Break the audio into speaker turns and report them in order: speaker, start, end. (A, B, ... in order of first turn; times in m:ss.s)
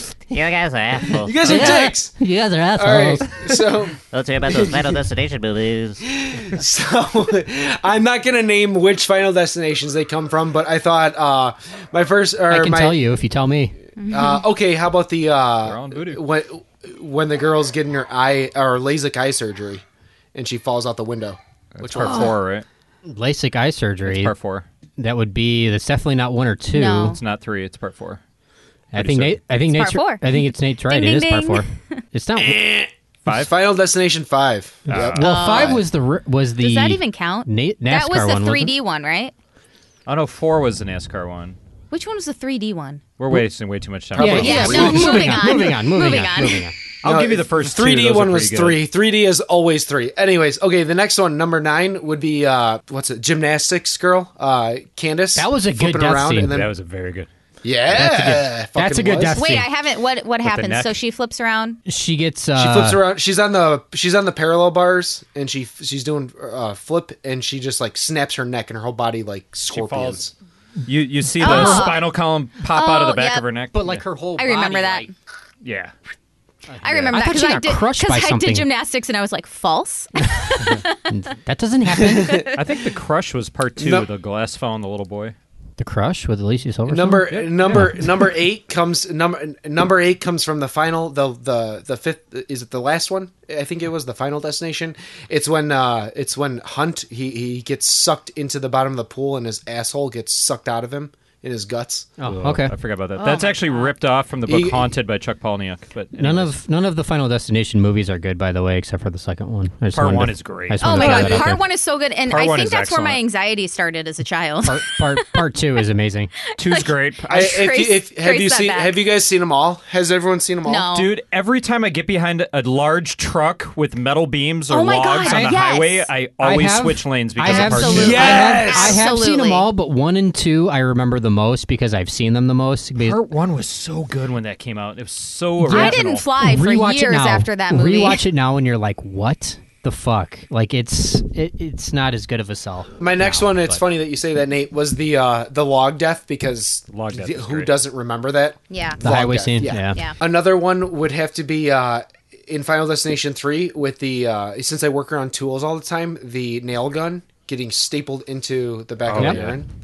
0:00.3-0:01.7 A
0:01.2-0:02.2 B
0:01.4-0:03.3 C
0:02.8-0:04.0 B
0:04.1-0:06.0 A
0:06.1-0:13.0 B
0:12.5-0:13.8 C
0:14.0-0:14.4 D
0:14.1-0:19.8 B
0:15.6-0:16.2 E
0:20.3-0:22.4 B
0:21.8-0:22.7 E
0:23.1-0:24.3 C
0:24.0-0:24.7 E
0:25.0-0:27.2 C
0:26.7-0:27.2 D
0:27.0-0:28.2 E
0:28.9-0:32.7 C
0:28.9-0:29.4 E
0:29.7-0:32.0 D
0:32.4-0:35.8 B
0:33.3-0:33.5 E
0:34.9-0:35.2 E
0:34.9-0:38.8 C
0:35.2-0:35.8 D
0:36.6-0:39.3 D
0:40.1-0:41.6 E
0:41.9-0:43.0 D
0:43.2-0:45.3 E
0:44.2-0:45.2 B
0:44.2-0:46.8 C
0:44.2-0:46.7 D
0:47.0-0:48.8 E
0:47.0-0:56.7 B
0:55.4-0:56.6 C
0:56.4-0:57.3 E
0:57.6-0:59.4 B
0:57.9-0:59.7 C
0:59.3-1:01.8 D
1:00.4-1:01.0 E
1:01.9-1:03.0 C
1:02.6-1:10.3 B
1:09.7-1:10.3 E
1:10.9-1:14.0 E
1:11.4-1:11.9 C
1:11.4-1:12.1 D
1:12.7-1:13.5 D
1:13.7-1:15.1 C
1:14.4-1:15.1 D
1:15.6-1:15.9 E
1:16.7-1:18.7 C
1:16.8-1:20.8 D
1:20.3-1:22.5 C
1:22.0-1:22.5 B
1:22.5-1:25.4 E
1:23.8-1:24.1 B
1:25.8-1:28.1 C
1:26.9-1:42.1 B
1:27.3-1:28.0 E
1:42.2-1:42.7 C
1:42.2-1:46.5 E
1:43.2-1:43.9 D
1:44.5-1:44.9 B
1:46.2-1:51.6 C
1:49.9-1:51.6 E
1:50.8-1:55.4 D
1:52.2-1:53.2 E
1:54.6-1:56.3 C
1:56.6-1:57.7 E
1:56.6-1:59.0 D
1:57.3-2:00.9 B
2:00.6-2:01.1 D
2:00.9-2:08.5 E
2:04.7-2:06.1 D
2:05.2-2:05.5 C
2:06.4-2:13.2 C
2:07.4-2:09.7 D
2:07.9-2:09.1 B
2:13.0-2:16.3 E
2:15.7-2:23.8 C
2:15.7-2:18.2 D
2:23.0-2:39.7 B
2:26.9-2:27.8 E
2:28.7-2:29.0 D
2:29.0-2:30.0 C
2:39.0-2:39.6 E
2:39.2-2:39.4 C